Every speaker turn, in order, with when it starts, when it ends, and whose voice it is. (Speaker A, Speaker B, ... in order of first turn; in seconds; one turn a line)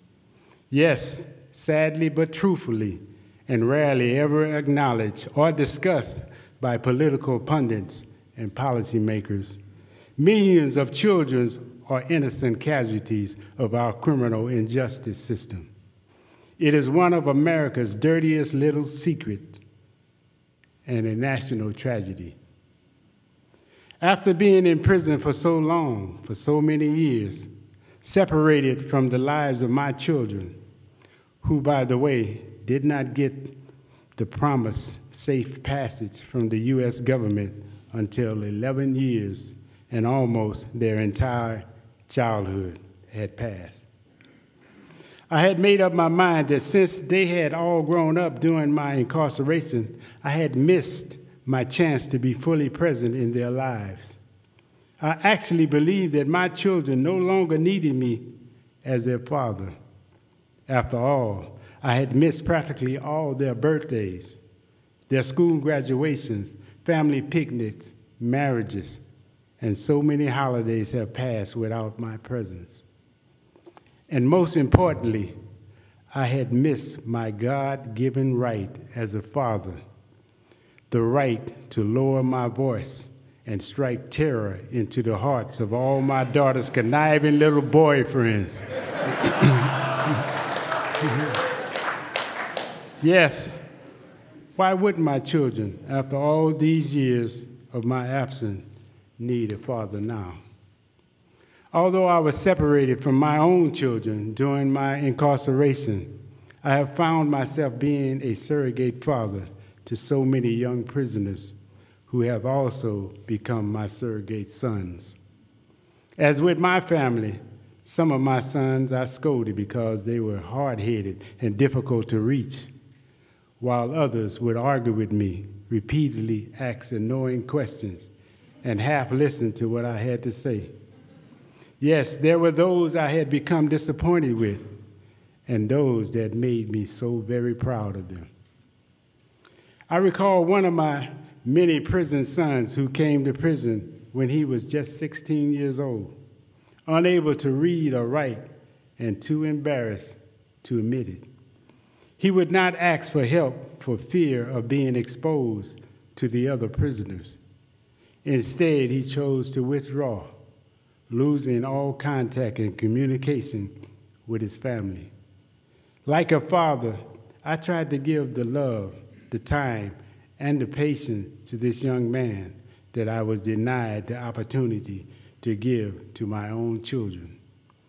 Speaker A: 0.7-9.6
Speaker A: 10.2-15.7
Speaker A: 16.6-19.6
Speaker A: 20.9-22.4
Speaker A: 24.0-27.5
Speaker A: 28.0-30.6
Speaker A: 31.4-33.6
Speaker A: 34.2-43.9
Speaker A: 45.3-54.2
Speaker A: 55.0-59.8
Speaker A: 60.7-64.4
Speaker A: 65.1-69.0
Speaker A: 69.6-72.8
Speaker A: 74.1-75.4
Speaker A: 76.1-79.8
Speaker A: 80.9-88.7
Speaker A: 89.2-89.8
Speaker A: 91.0-91.3
Speaker A: 93.0-93.7
Speaker A: 94.6-98.7
Speaker A: 99.2-100.4
Speaker A: 101.7-111.5
Speaker A: 112.1-115.2
Speaker A: 116.2-122.7
Speaker A: 123.6-128.1
Speaker A: 128.6-130.7
Speaker A: 131.8-134.7
Speaker A: 135.5-138.3
Speaker A: 139.9-146.2
Speaker A: 146.9-148.5
Speaker A: 149.0-151.3
Speaker A: 152.2-157.4
Speaker A: 158.2-160.3
Speaker A: 161.1-163.8
Speaker A: 164.3-165.1
Speaker A: 166.1-177.4